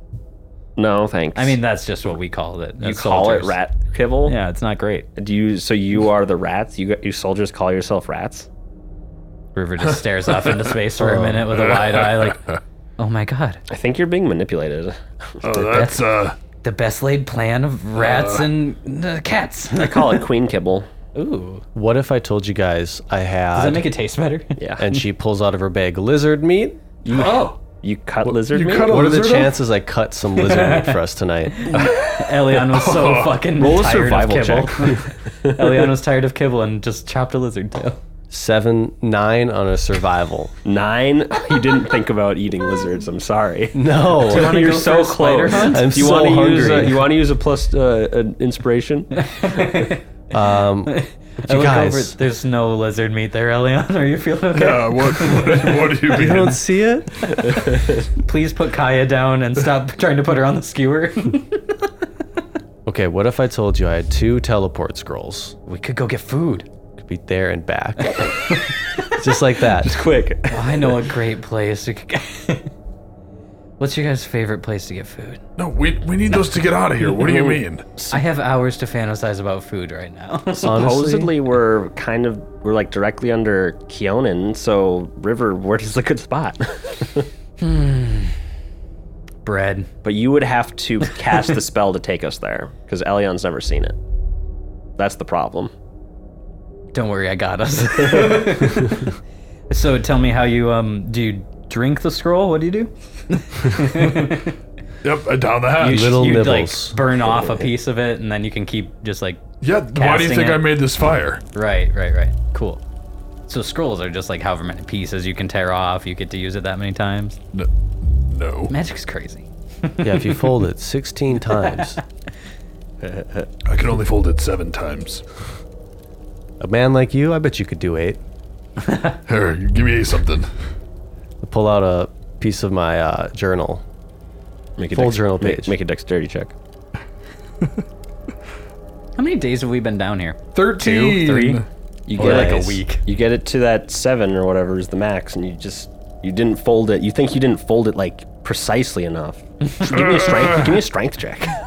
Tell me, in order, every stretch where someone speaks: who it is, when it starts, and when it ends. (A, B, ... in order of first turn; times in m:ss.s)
0:00.8-0:01.6 A
0:01.3-0:03.6 B
0:02.8-0:04.4 A
0:04.2-0:05.1 B
0:05.2-0:08.5 A
0:09.5-0:12.4 B
0:11.0-0:11.3 C
0:11.5-0:12.6 D
0:13.0-0:13.6 B
0:13.7-0:15.5 A
0:15.4-0:16.4 D
0:15.6-0:16.0 B
0:16.6-0:20.2 B
0:18.0-0:18.5 D
0:19.8-0:20.9 A
0:21.1-0:21.6 B
0:21.7-0:23.9 C
0:23.5-0:25.0 B
0:24.6-0:24.8 A
0:24.8-0:26.8 C
0:27.0-0:29.0 A
0:27.1-0:27.6 B
0:28.5-0:29.6 D
0:28.8-0:31.8 C
0:30.3-0:38.0 B
0:31.7-0:33.4 D
0:33.6-0:35.8 A
0:38.3-0:40.5 C
0:40.6-0:49.1 A
0:43.7-0:44.6 C
0:44.2-0:46.2 B
0:45.6-0:47.1 C
0:49.1-0:50.0 B
0:50.3-0:52.2 C
0:50.8-0:56.4 B
0:54.5-0:56.6 D
0:56.1-0:57.3 C
0:57.2-1:01.9 B
0:57.6-0:58.0 A
1:02.8-1:05.5 C
1:05.7-1:06.7 B
1:07.0-1:08.3 C
1:08.1-1:09.0 B
1:09.1-1:10.0 C
1:09.8-1:11.0 A
1:10.5-1:12.7 B
1:13.8-1:15.4 B
1:15.6-1:17.8 D
1:17.1-1:18.2 A
1:18.1-1:20.8 B
1:20.5-1:27.3 A
1:20.6-1:21.3 C
1:27.6-1:28.4 B
1:29.4-1:29.9 B
1:30.0-1:34.0 A
1:35.0-1:35.7 A
1:36.9-1:39.2 B
1:39.7-1:44.6 B
1:45.0-1:46.1 D
1:45.8-1:49.4 B
1:45.8-1:47.0 C
1:49.6-1:51.4 D
1:49.9-1:50.7 B
1:51.5-1:52.8 B
1:53.5-1:57.4 B
1:57.5-1:58.7 D
1:58.7-2:00.6 B
2:00.0-2:02.0 C
2:01.6-2:02.0 B
2:03.0-2:03.5 A
2:03.6-2:05.2 D
2:06.6-2:08.2 C
2:08.8-2:09.2 B
2:09.2-2:10.5 D
2:11.4-2:13.8 C
2:14.8-2:16.5 A
2:14.9-2:15.8 C
2:19.2-2:21.6 B
2:20.5-2:21.6 D
2:22.1-2:31.6 A
2:22.2-2:23.0 B
2:22.2-2:22.7 C
2:29.9-2:30.8 D